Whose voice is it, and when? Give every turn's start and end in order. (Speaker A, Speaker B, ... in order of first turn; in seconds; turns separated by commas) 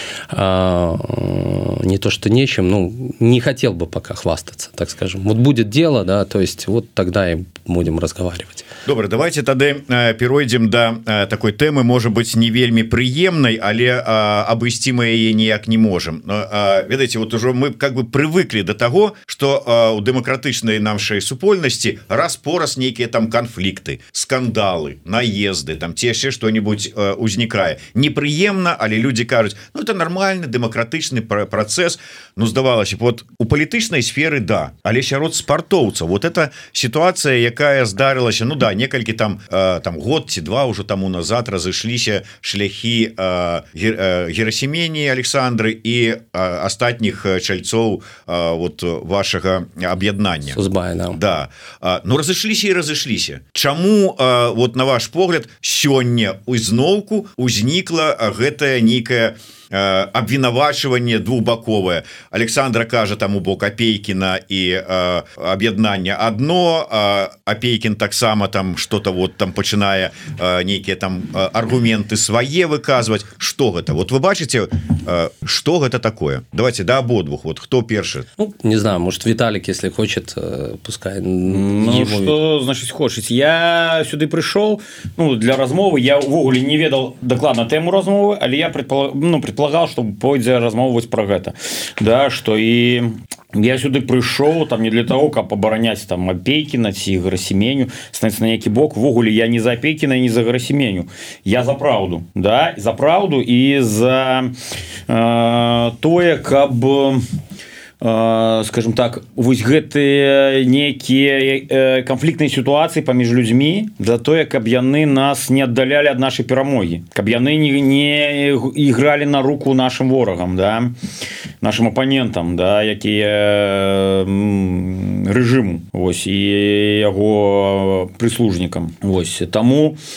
Speaker A: 0.3-8.6, Speaker B: 8.8-50.6, Speaker A: 50.5-51.2, Speaker B: 51.1-78.3, Speaker A: 78.4-82.3, Speaker C: 81.5-104.5, Speaker C: 105.1-107.2, Speaker C: 108.0-121.0, Speaker C: 121.6-130.0